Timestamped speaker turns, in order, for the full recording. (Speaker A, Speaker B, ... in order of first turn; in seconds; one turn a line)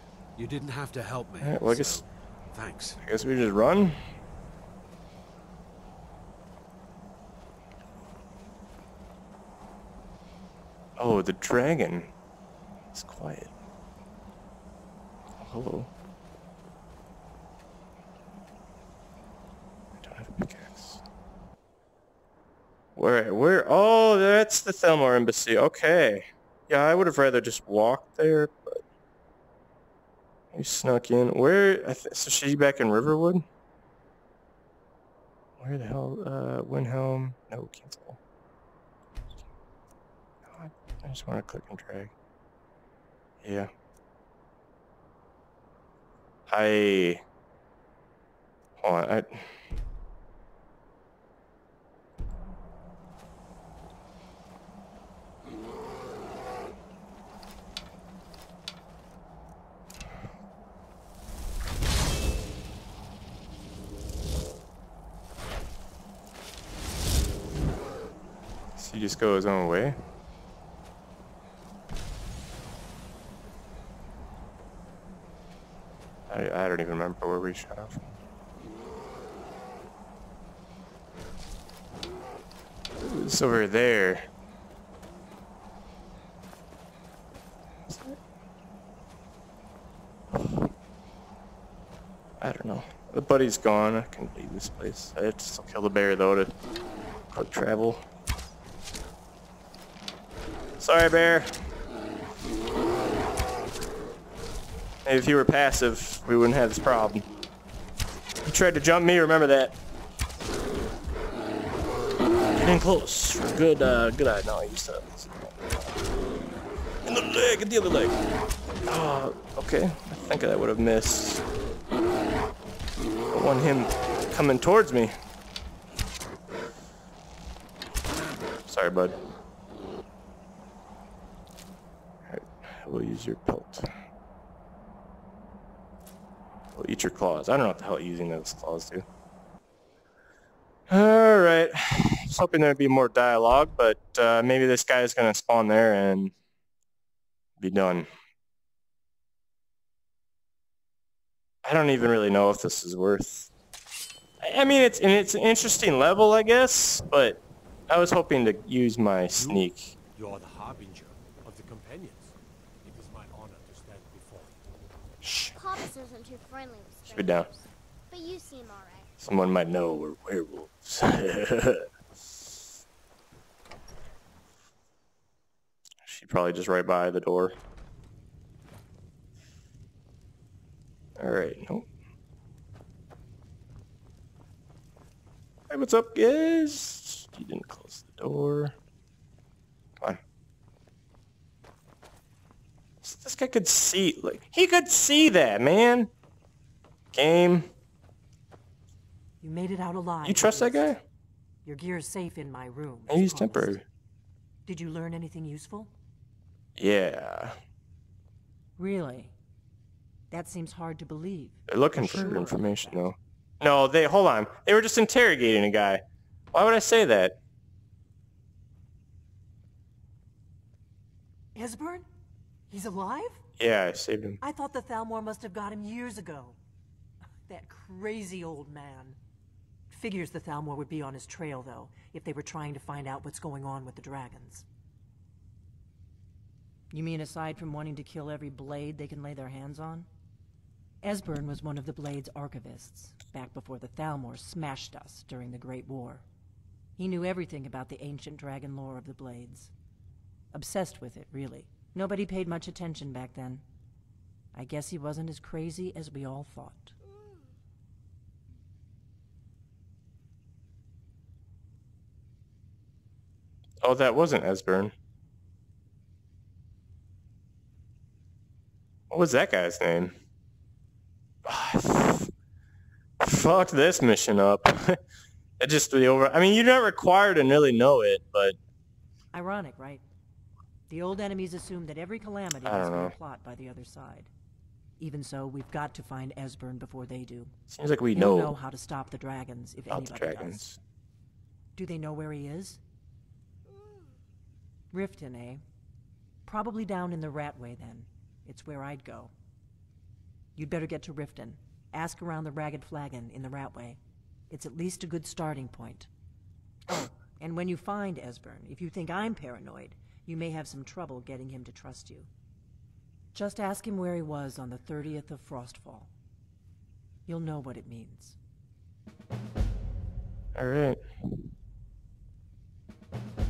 Speaker A: 0.4-3.0
Speaker B: 1.4-2.0
Speaker B: 3.0-4.0
Speaker B: 11.0-12.1
Speaker B: 12.9-13.5
Speaker B: 15.4-15.9
Speaker B: 20.0-21.0
Speaker B: 22.9-28.8
Speaker B: 30.5-33.5
Speaker B: 35.6-38.2
Speaker B: 40.5-42.1
Speaker B: 43.4-43.7
Speaker B: 46.5-47.2
Speaker B: 48.8-49.6
Speaker B: 68.8-70.0
Speaker B: 76.3-78.2
Speaker B: 83.0-84.3
Speaker B: 87.9-88.2
Speaker B: 90.3-90.7
Speaker B: 92.4-96.5
Speaker B: 97.3-98.0
Speaker B: 100.8-101.6
Speaker B: 105.0-107.3
Speaker B: 108.5-109.8
Speaker B: 112.5-116.1
Speaker B: 117.0-118.2
Speaker B: 118.8-121.5
Speaker B: 123.3-125.1
Speaker B: 128.7-129.2
Speaker B: 132.2-133.9
Speaker B: 136.7-139.1
Speaker B: 140.9-146.3
Speaker B: 147.6-148.1
Speaker B: 151.6-153.5
Speaker B: 154.4-160.0
Speaker C: 160.2-161.0
Speaker C: 161.5-162.3
Speaker C: 163.2-164.2
Speaker B: 165.2-165.9
Speaker D: 165.6-169.1
Speaker B: 167.1-167.5
Speaker B: 169.2-171.9
Speaker B: 176.0-177.6
Speaker B: 181.2-181.9
Speaker B: 185.7-188.8
Speaker B: 193.0-196.1
Speaker B: 197.1-197.7
Speaker E: 199.4-200.9
Speaker B: 200.2-201.0
Speaker E: 201.7-203.8
Speaker B: 203.1-203.8
Speaker E: 204.7-205.9
Speaker B: 206.8-207.6
Speaker E: 208.8-209.3
Speaker E: 210.3-213.1
Speaker B: 211.7-217.4
Speaker E: 221.6-222.1
Speaker E: 222.7-223.4
Speaker B: 223.6-224.4
Speaker E: 224.4-226.6
Speaker E: 227.5-229.2
Speaker E: 229.9-234.7
Speaker E: 236.9-240.1
Speaker E: 241.0-246.2
Speaker E: 247.0-249.7
Speaker E: 250.5-253.6
Speaker E: 254.6-256.9
Speaker B: 263.8-264.9
Speaker B: 269.1-270.2
Speaker B: 271.4-272.3
Speaker B: 273.2-275.0
Speaker B: 275.6-278.6
Speaker E: 279.3-280.0
Speaker E: 280.9-284.3
Speaker B: 282.6-283.1
Speaker E: 285.0-287.6
Speaker B: 287.7-288.6
Speaker E: 288.1-290.8
Speaker B: 289.9-290.8
Speaker E: 291.8-292.8
Speaker E: 294.9-295.6
Speaker E: 296.5-299.3
Speaker E: 300.6-304.0
Speaker E: 304.5-306.1
Speaker E: 306.9-312.3
Speaker E: 313.4-316.1
Speaker E: 317.3-318.4
Speaker B: 320.6-321.5